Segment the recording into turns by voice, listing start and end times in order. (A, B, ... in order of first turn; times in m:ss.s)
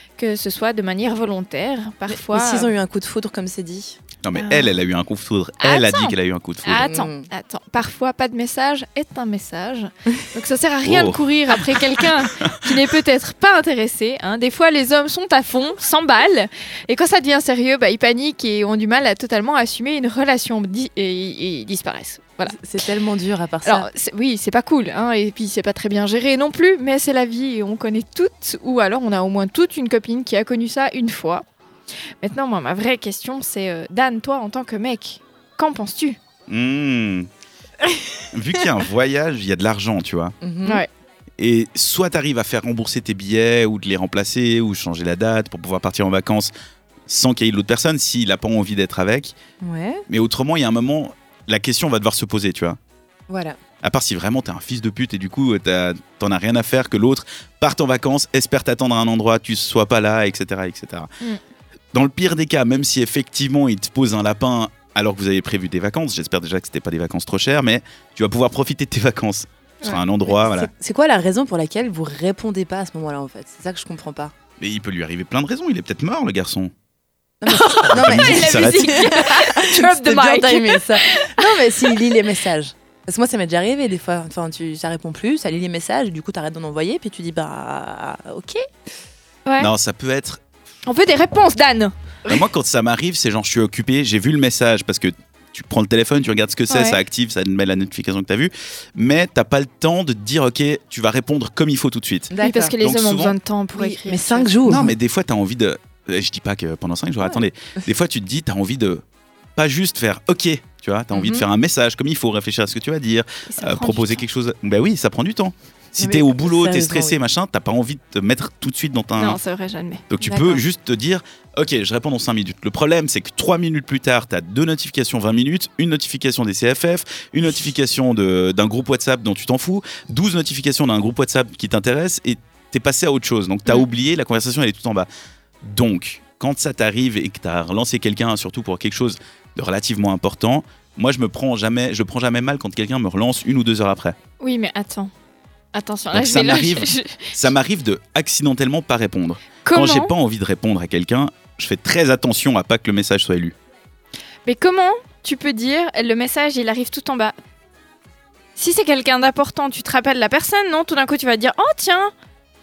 0:00.2-0:02.7 A
0:02.1-0:04.0 B
0:04.2-0:06.9 C
0:04.3-0:04.8 A
0:05.6-0:22.6 A
0:06.8-0:07.3 B
0:10.8-0:12.5 C
0:22.5-0:23.9 B
0:23.6-0:31.4 A
0:32.2-0:36.2 A
0:36.5-0:37.3 C
0:38.3-0:40.3 C
0:40.4-0:40.8 B
0:41.4-0:46.5 C
0:47.1-0:49.3 C
0:49.6-0:50.0 B
0:50.1-0:52.8 C
0:53.3-0:53.6 B
0:53.8-1:01.1 C
1:01.9-1:10.7 C
1:10.2-1:14.3 B
1:14.6-1:16.7 C
1:17.4-1:28.6 B
1:17.4-1:22.0 A
1:17.9-1:19.1 C
1:29.6-1:30.4 C
1:30.9-1:32.4 A
1:32.3-1:43.4 C
1:36.7-1:37.0 A
1:42.3-1:42.8 B
1:42.4-1:44.6 A
1:43.8-1:45.0 B
1:44.6-1:49.0 C
1:49.6-1:59.4 C
1:51.1-1:51.4 B
1:53.5-1:54.2 A
1:56.0-1:57.2 B
1:59.2-2:00.6 A
2:00.1-2:15.1 C
2:15.6-2:24.2 C
2:24.4-2:25.1 A
2:25.7-2:27.4 A
2:26.1-2:33.6 C
2:29.6-2:30.1 A
2:34.4-2:37.3 A
2:38.6-2:42.1 A